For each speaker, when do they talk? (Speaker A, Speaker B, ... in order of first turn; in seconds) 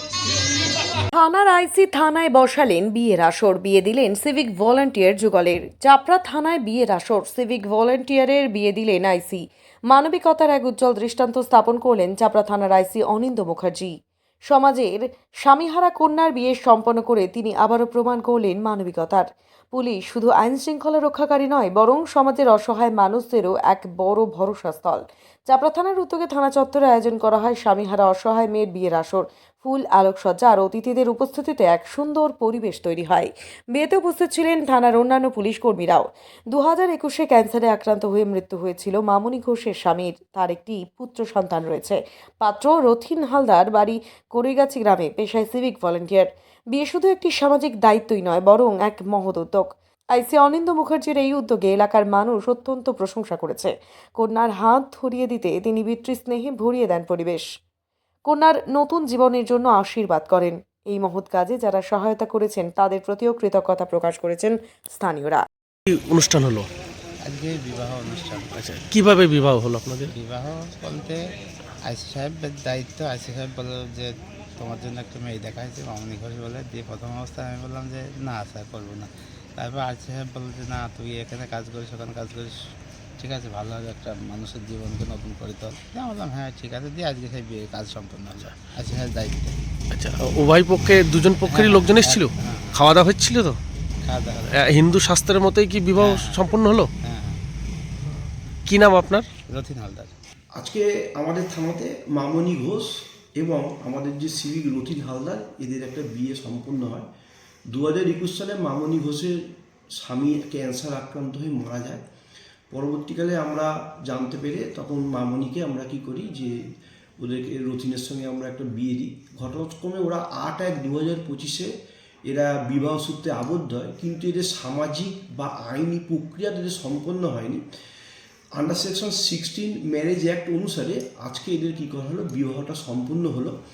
Speaker A: 1.1-13.9, 14.5-57.5, 58.3-65.4
Speaker B: 65.9-66.7, 68.6-70.1, 89.9-93.6, 94.5-96.9, 98.7-99.3
Speaker C: 67.2-68.6, 70.1-71.3, 71.8-82.5, 83.2-89.6, 91.5-92.8, 94.0-94.6, 96.0-96.4, 97.0-97.4, 99.5-100.1
Speaker D: 100.6-107.1, 107.7-112.0, 112.7-116.6, 117.2-121.7, 122.3-127.6, 128.6-133.6